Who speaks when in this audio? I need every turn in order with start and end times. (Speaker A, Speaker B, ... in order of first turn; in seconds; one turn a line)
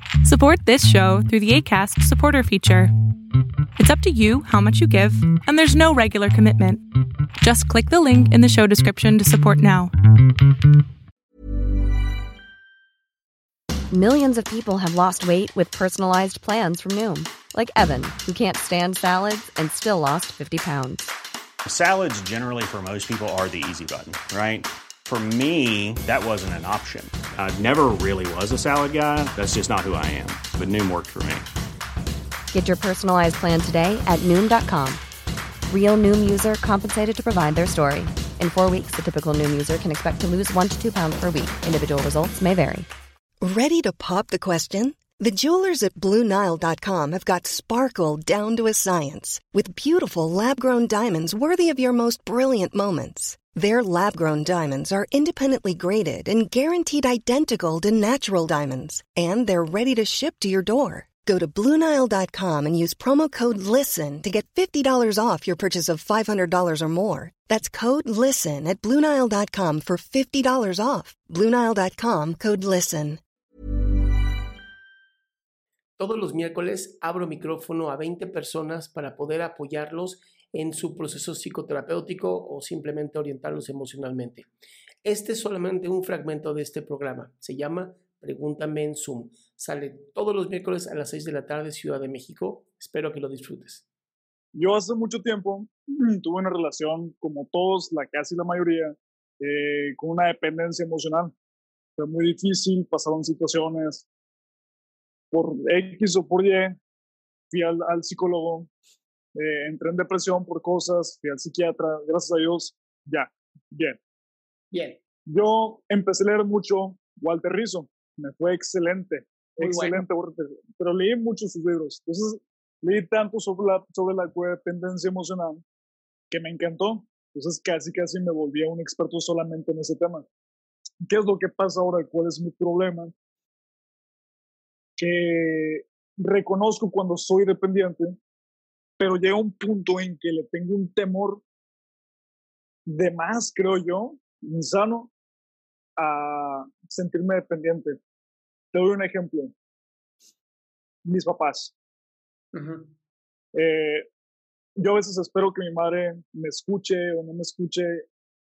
Speaker A: 0.2-2.9
Speaker A: 3.8-6.8
Speaker A: 7.4-9.9
Speaker B: 13.9-21.1
Speaker C: 21.6-31.4
Speaker B: 32.5-35.0
Speaker B: 35.7-42.9
Speaker D: 43.4-73.2
Speaker E: 76.0-84.5
Speaker E: 85.0-93.8
Speaker F: 94.5-101.3
Speaker F: 102.0-104.0
Speaker F: 105.3-106.8
Speaker F: 107.5-108.7
Speaker F: 109.3-114.0
Speaker E: 114.7-115.0
Speaker F: 115.2-125.6
Speaker E: 119.6-120.0
Speaker F: 126.3-130.2
Speaker F: 131.0-133.1
Speaker F: 135.0-138.2
Speaker F: 139.0-141.4
Speaker F: 142.9-145.1
Speaker F: 146.0-148.0
Speaker F: 148.7-149.5
Speaker F: 151.0-151.7
Speaker E: 152.5-152.9
Speaker F: 153.5-154.1
Speaker F: 154.8-158.0